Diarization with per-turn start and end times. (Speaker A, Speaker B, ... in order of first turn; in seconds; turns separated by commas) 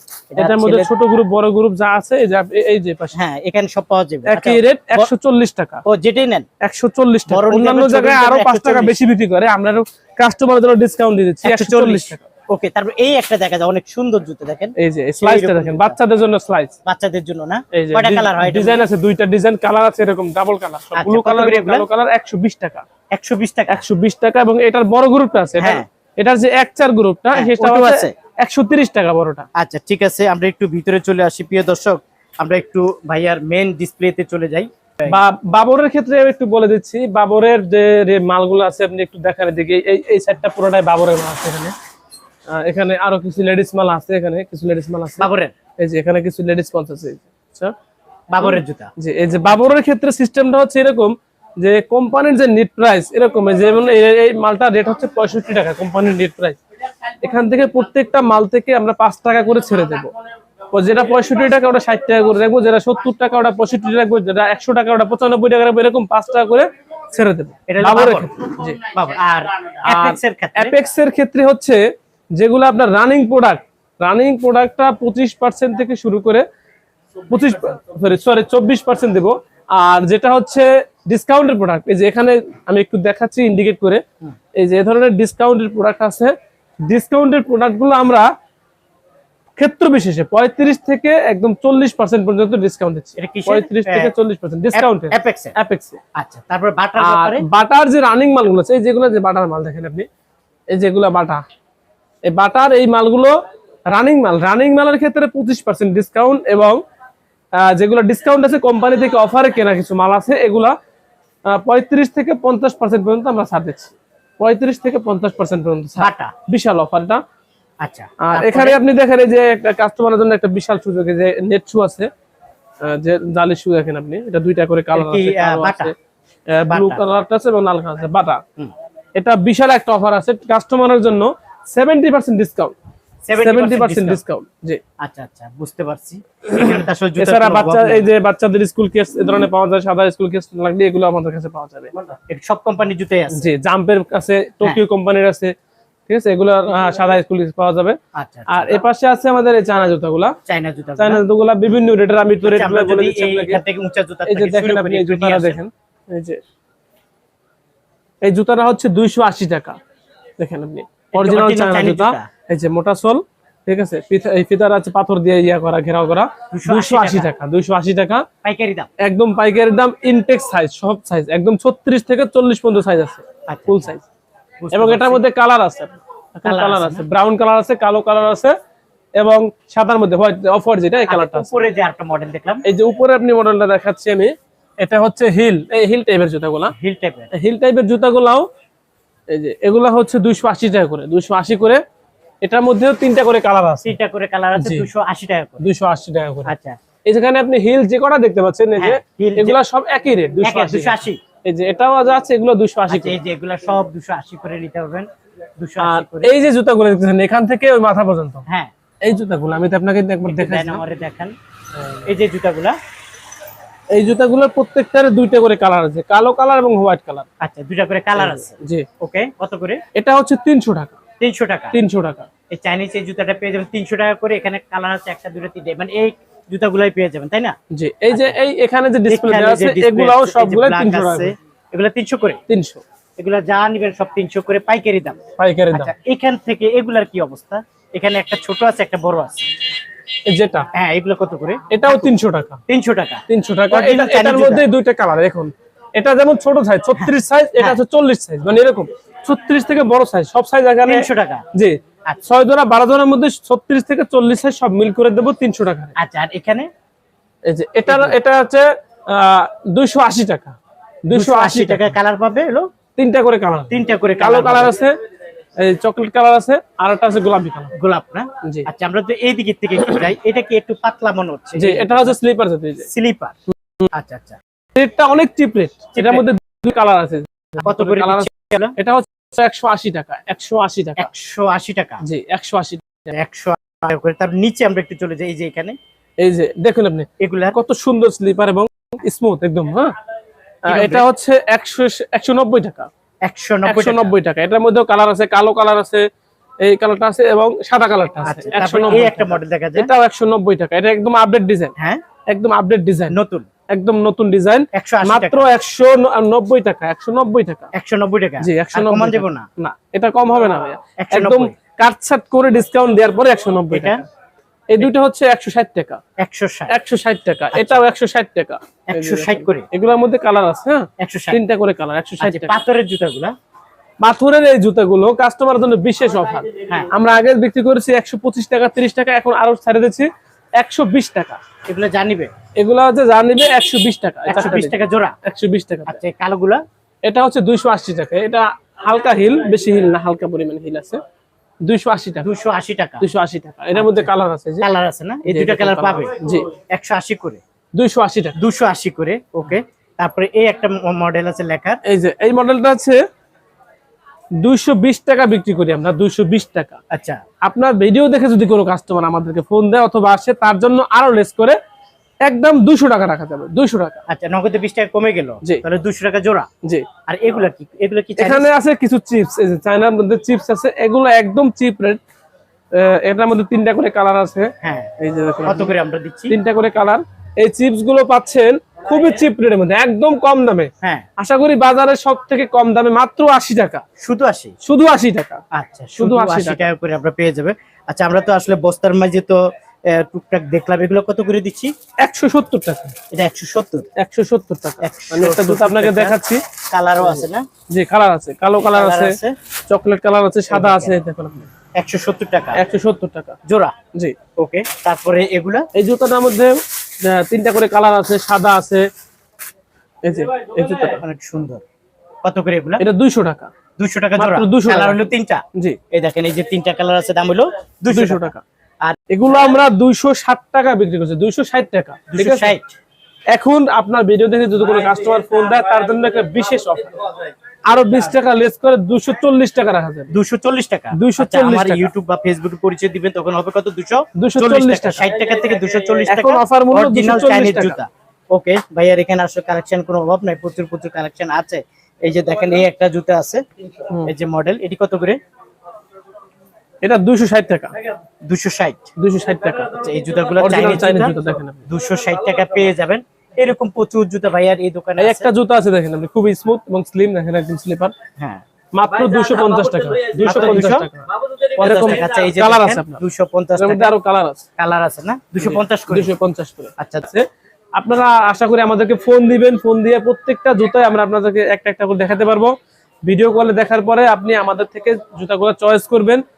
Speaker A: 0.3-0.9, Speaker B: 0.4-3.1, Speaker A: 3.1-5.1, Speaker B: 4.3-5.8, Speaker A: 5.9-6.5, Speaker B: 6.6-12.3, Speaker A: 7.3-8.9, Speaker A: 11.4-16.0, Speaker B: 14.8-16.8, Speaker A: 16.9-18.8, Speaker B: 17.7-22.9, Speaker A: 20.9-21.9, Speaker A: 23.1-23.8, Speaker B: 23.7-29.5, Speaker A: 25.6-25.9, Speaker A: 27.3-28.1, Speaker A: 29.6-35.2, Speaker B: 35.1-41.8, Speaker B: 42.5-45.3, Speaker A: 45.2-45.5, Speaker B: 45.8-47.7, Speaker A: 48.3-48.9, Speaker B: 48.4-56.6, Speaker B: 57.2-60.1, Speaker B: 60.7-68.8, Speaker A: 67.7-68.3, Speaker A: 68.9-70.8, Speaker B: 69.9-71.8, Speaker B: 72.4-76.5, Speaker B: 77.3-84.0, Speaker B: 84.6-86.3, Speaker B: 86.9-88.3, Speaker B: 89.6-96.0, Speaker A: 93.2-94.1, Speaker A: 94.7-95.5, Speaker A: 96.2-97.4, Speaker B: 97.0-100.1, Speaker B: 100.7-101.4, Speaker B: 102.3-103.3, Speaker B: 103.9-106.8, Speaker B: 107.6-110.7, Speaker B: 111.5-117.2, Speaker A: 116.0-116.3, Speaker A: 117.8-118.8, Speaker B: 118.2-122.1, Speaker B: 122.8-125.9, Speaker A: 125.0-125.9, Speaker B: 126.6-128.4, Speaker A: 126.7-127.0, Speaker B: 129.2-132.8, Speaker A: 133.2-134.2, Speaker B: 133.4-134.8, Speaker A: 135.0-138.1, Speaker B: 137.2-141.9, Speaker A: 142.3-143.5, Speaker B: 143.3-145.5, Speaker B: 146.1-148.0, Speaker A: 148.2-148.8, Speaker B: 148.5-150.3, Speaker A: 150.5-151.2, Speaker B: 151.0-153.6, Speaker A: 152.4-155.6, Speaker B: 154.3-156.4, Speaker B: 158.2-159.8, Speaker B: 160.4-168.2, Speaker A: 161.2-162.3, Speaker A: 166.5-167.3, Speaker A: 168.4-168.9, Speaker B: 169.0-174.0, Speaker A: 173.5-173.9, Speaker A: 174.6-175.2, Speaker B: 174.7-178.6, Speaker A: 176.4-177.0, Speaker B: 179.2-181.7, Speaker A: 181.1-182.6, Speaker B: 182.7-186.7, Speaker A: 186.7-187.3, Speaker B: 187.3-188.5, Speaker B: 189.3-191.8, Speaker B: 192.4-193.9, Speaker A: 193.8-195.6, Speaker B: 194.6-194.9, Speaker B: 195.6-196.5, Speaker A: 196.5-196.8, Speaker B: 197.1-203.2, Speaker A: 198.8-199.6, Speaker A: 200.4-201.2, Speaker A: 202.9-205.1, Speaker A: 205.6-206.3, Speaker B: 205.8-208.4, Speaker A: 208.5-208.7, Speaker B: 209.0-210.8, Speaker A: 210.3-211.3, Speaker A: 212.1-212.8, Speaker B: 213.9-217.3, Speaker A: 217.4-219.8, Speaker B: 218.2-218.9, Speaker B: 219.9-221.0, Speaker A: 221.2-221.8, Speaker B: 221.7-222.3, Speaker A: 222.5-227.6, Speaker B: 227.7-231.3, Speaker A: 228.1-228.4, Speaker A: 229.1-232.4, Speaker B: 232.5-232.8, Speaker A: 233.2-235.2, Speaker B: 235.4-235.9, Speaker A: 235.7-239.5, Speaker B: 240.3-240.7, Speaker A: 240.7-242.1, Speaker B: 241.7-242.6, Speaker A: 242.7-244.7, Speaker B: 243.3-255.9, Speaker A: 247.0-247.8, Speaker A: 250.8-251.4, Speaker A: 256.0-256.7, Speaker B: 257.5-260.6, Speaker A: 257.9-258.2, Speaker B: 261.1-261.9, Speaker A: 261.1-262.7, Speaker B: 263.0-264.9, Speaker A: 263.7-264.8, Speaker B: 265.6-267.7, Speaker A: 267.8-272.2, Speaker B: 268.4-268.7, Speaker B: 271.6-272.9, Speaker A: 272.9-273.4, Speaker A: 273.9-274.4, Speaker B: 274.8-281.1, Speaker A: 275.9-276.3, Speaker A: 277.6-278.8, Speaker A: 281.0-282.0, Speaker B: 282.0-283.1, Speaker A: 283.1-285.8, Speaker B: 286.2-289.9, Speaker A: 287.2-287.6, Speaker B: 290.7-292.9, Speaker A: 290.7-291.1, Speaker A: 293.3-294.1, Speaker B: 293.6-296.1, Speaker B: 296.6-301.7, Speaker A: 298.2-299.9, Speaker B: 302.3-303.2, Speaker A: 303.1-303.5, Speaker B: 303.7-307.7, Speaker A: 304.7-305.5, Speaker A: 307.7-309.5, Speaker B: 308.4-314.1, Speaker A: 311.0-311.6, Speaker A: 313.7-314.0, Speaker B: 314.7-316.0, Speaker A: 316.2-316.7, Speaker B: 316.7-322.6, Speaker A: 317.5-317.8, Speaker A: 318.9-319.7, Speaker A: 321.0-321.4, Speaker A: 322.2-323.3, Speaker B: 324.0-330.1, Speaker A: 326.6-326.9, Speaker B: 330.6-331.4, Speaker A: 331.7-332.3, Speaker B: 332.6-336.0, Speaker A: 334.3-335.1, Speaker A: 335.9-336.6, Speaker B: 337.1-341.0, Speaker B: 341.7-342.3, Speaker A: 342.2-343.1, Speaker B: 343.0-344.7, Speaker A: 343.8-346.1, Speaker B: 345.3-346.5, Speaker A: 346.7-347.4, Speaker B: 347.8-348.4, Speaker A: 348.4-351.8, Speaker B: 351.9-353.0, Speaker B: 354.4-356.8, Speaker A: 356.9-357.2, Speaker B: 357.4-361.6, Speaker B: 362.2-364.0, Speaker A: 364.1-366.5, Speaker A: 367.1-368.5, Speaker B: 368.2-372.0, Speaker B: 372.7-375.7, Speaker A: 374.6-374.9, Speaker A: 375.4-376.4, Speaker B: 376.3-383.8, Speaker A: 384.0-384.5, Speaker B: 384.6-385.4, Speaker A: 385.5-391.7, Speaker B: 386.0-386.7, Speaker B: 392.0-392.9, Speaker A: 393.1-393.9, Speaker B: 394.0-396.4, Speaker A: 394.8-396.2, Speaker A: 396.7-397.5, Speaker B: 397.0-399.2, Speaker A: 398.6-399.4, Speaker B: 399.7-401.5, Speaker A: 400.5-401.0, Speaker A: 401.8-402.6, Speaker B: 402.6-403.4, Speaker A: 403.5-403.7, Speaker A: 404.4-405.7, Speaker B: 405.7-408.9, Speaker B: 410.0-411.0, Speaker A: 411.0-411.6, Speaker A: 412.2-412.8, Speaker B: 412.8-413.5, Speaker A: 413.8-418.3, Speaker B: 414.2-415.8, Speaker B: 417.9-418.4, Speaker B: 419.1-422.6, Speaker A: 422.1-422.8, Speaker B: 423.3-426.9, Speaker B: 427.7-430.1, Speaker A: 430.1-443.4, Speaker B: 430.9-431.9, Speaker B: 434.2-435.1, Speaker B: 436.1-437.8, Speaker A: 444.0-445.2, Speaker B: 446.8-447.8, Speaker A: 448.2-448.9, Speaker B: 449.0-451.6, Speaker A: 449.8-451.1, Speaker A: 451.7-455.3, Speaker B: 455.0-457.9, Speaker B: 458.8-463.0, Speaker A: 460.1-460.9, Speaker A: 461.6-463.9, Speaker B: 463.6-464.4, Speaker A: 464.6-466.1, Speaker B: 465.4-467.3, Speaker A: 466.8-467.1, Speaker B: 467.8-472.6, Speaker B: 473.1-476.2